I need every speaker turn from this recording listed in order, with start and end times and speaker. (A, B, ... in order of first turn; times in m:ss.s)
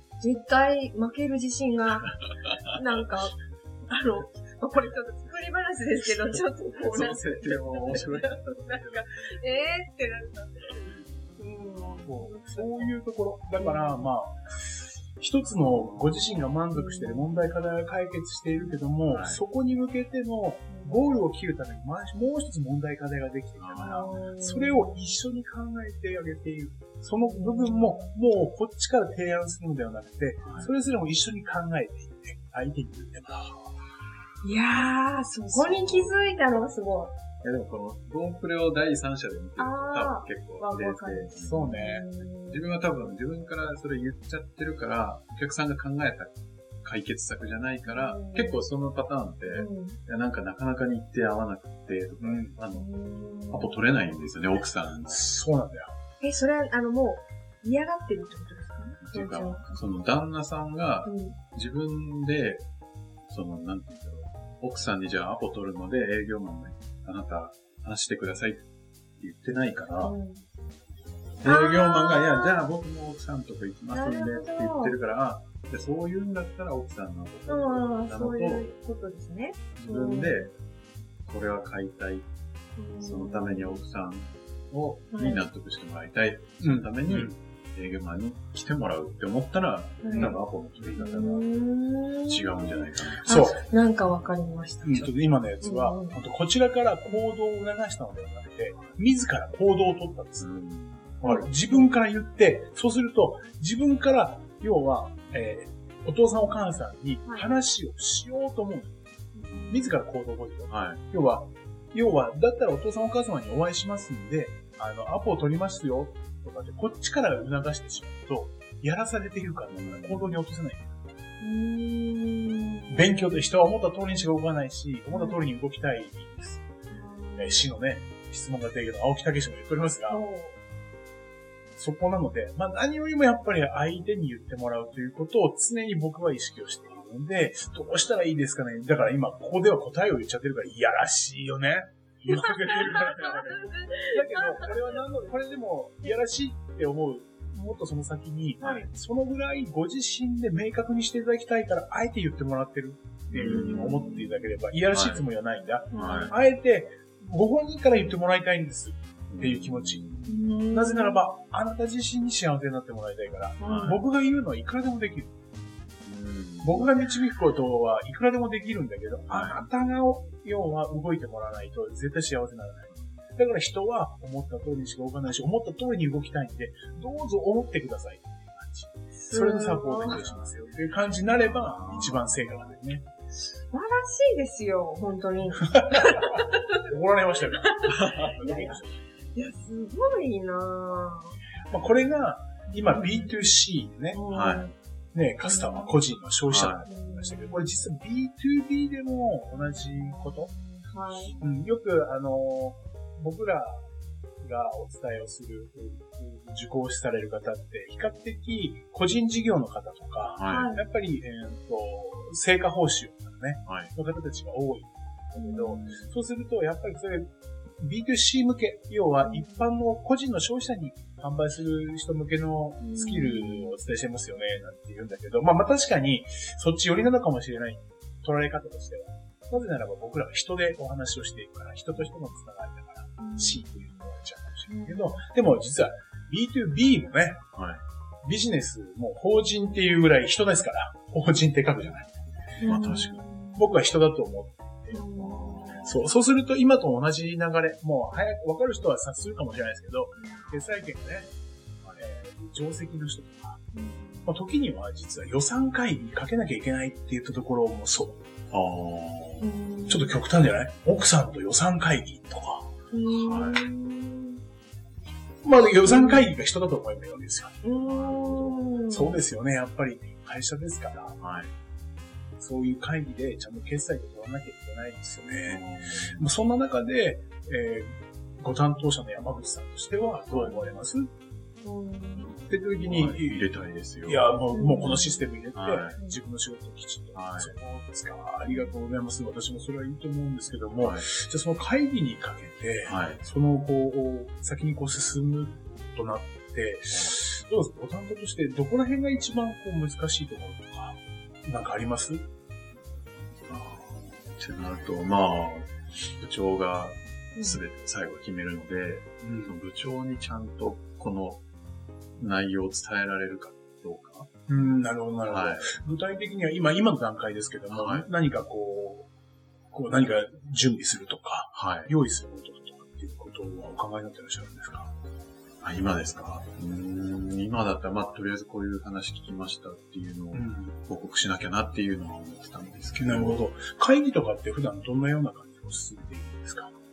0:00.2-0:12.9 A
0:06.3-0:09.4 B
0:07.9-0:08.2 C
0:11.8-0:12.1 B
0:12.1-0:33.7 C
0:13.6-0:14.1 A
0:15.9-0:16.2 B
0:16.7-0:17.4 A
0:19.0-0:19.4 B
0:20.7-0:21.0 A
0:23.6-0:24.2 B
0:23.8-0:24.9 A
0:27.2-0:28.1 A
0:30.4-0:30.7 B
0:34.4-0:37.1 A
0:35.5-0:36.1 B
0:37.4-0:52.9 B
0:39.6-0:42.7 A
0:41.4-0:42.0 C
0:47.9-0:48.6 A
0:49.5-0:50.0 A
0:52.2-0:52.6 C
0:52.7-0:53.8 A
0:53.5-0:55.3 B
0:55.1-0:55.9 C
0:56.2-0:59.8 A
0:59.0-1:02.7 B
1:01.1-1:01.4 A
1:03.3-1:08.6 B
1:09.2-1:10.2 B
1:10.0-1:10.4 A
1:11.4-1:18.7 B
1:11.4-1:12.6 A
1:13.9-1:15.0 A
1:17.5-1:20.5 A
1:19.8-1:20.5 B
1:21.2-1:22.3 B
1:22.8-1:23.8 A
1:23.0-1:31.5 B
1:25.1-1:25.4 A
1:26.6-1:27.4 C
1:30.0-1:30.4 A
1:30.1-1:30.4 C
1:30.9-1:36.2 A
1:32.3-1:33.5 B
1:33.2-1:33.6 C
1:34.8-1:40.6 C
1:40.4-1:41.2 B
1:41.2-1:49.0 C
1:41.2-1:41.9 A
1:49.3-1:49.9 A
1:49.5-1:49.8 B
1:49.7-2:01.0 C
1:50.7-1:51.0 B
1:59.7-2:00.4 B
2:01.4-2:03.4 A
2:02.9-2:06.6 C
2:05.1-2:05.4 A
2:06.9-2:07.7 A
2:07.4-2:10.2 C
2:10.1-2:10.6 A
2:11.8-2:40.0 C
2:22.3-2:25.0 A
2:28.6-2:28.9 A
2:33.3-2:34.0 B
2:33.3-2:34.4 A
2:34.9-2:35.2 B
2:35.9-2:36.4 A
2:35.9-2:36.3 B
2:39.3-2:40.4 B
2:40.3-2:41.2 A
2:40.7-2:45.4 C
2:43.6-2:44.0 A
2:43.6-2:44.0 B
2:46.0-2:46.8 B
2:46.6-3:03.0 C
2:49.3-2:49.6 B
2:52.9-2:53.2 B
2:59.3-3:00.2 A
3:00.0-3:00.7 B
3:01.4-3:02.4 B
3:03.5-3:06.7 A
3:05.6-3:09.0 C
3:07.7-3:08.8 A
3:07.9-3:08.4 B
3:09.4-3:11.4 A
3:11.7-3:14.2 C
3:12.9-3:13.3 A
3:14.1-3:14.7 A
3:14.3-3:14.7 B
3:15.1-3:20.5 C
3:15.4-3:15.9 A
3:16.5-3:16.9 B
3:16.9-3:17.8 A
3:19.8-3:21.4 A
3:21.4-3:23.8 C
3:24.4-3:57.4 C
3:30.4-3:30.7 B
3:30.5-3:30.8 A
3:33.7-3:33.9 B
3:35.4-3:36.1 A
3:39.2-3:39.7 A
3:42.8-3:43.8 A
3:53.2-3:53.7 A
3:54.7-3:55.2 A
3:57.5-3:57.8 B
3:58.2-4:02.1 C
4:02.6-4:03.6 A
4:02.7-4:03.2 B
4:03.6-4:05.1 C
4:04.9-4:05.9 A
4:05.2-4:05.9 B
4:05.8-4:11.3 C
4:10.2-4:10.5 A
4:12.0-4:13.6 C
4:13.7-4:14.3 A
4:14.2-4:18.2 C
4:18.5-4:19.5 B
4:19.4-4:20.2 A
4:19.9-4:22.7 C
4:22.9-4:24.4 A
4:23.1-4:23.7 B
4:25.4-4:27.6 C
4:25.8-4:26.3 A
4:27.6-4:29.2 A
4:27.8-4:28.8 B
4:28.9-4:31.2 C
4:31.2-4:31.5 B
4:32.4-4:41.1 C
4:35.4-4:36.3 B
4:40.3-4:40.8 B
4:41.6-4:42.3 A
4:42.2-4:44.2 B
4:42.5-4:43.5 C
4:44.0-5:02.3 C
4:44.5-4:45.3 A
4:45.5-4:46.0 B
4:47.2-4:47.6 B
4:48.5-4:48.8 A
4:50.8-4:51.1 B
4:52.8-4:53.2 B
4:56.9-4:57.2 B
5:03.5-5:11.4 B
5:09.2-5:09.6 C
5:12.2-5:14.3 B
5:14.5-5:19.1 C
5:15.3-5:15.8 B
5:17.7-5:18.1 B
5:19.7-5:24.9 C
5:21.5-5:21.9 B
5:25.6-5:33.4 B
5:30.3-5:30.7 C
5:33.0-5:36.7 C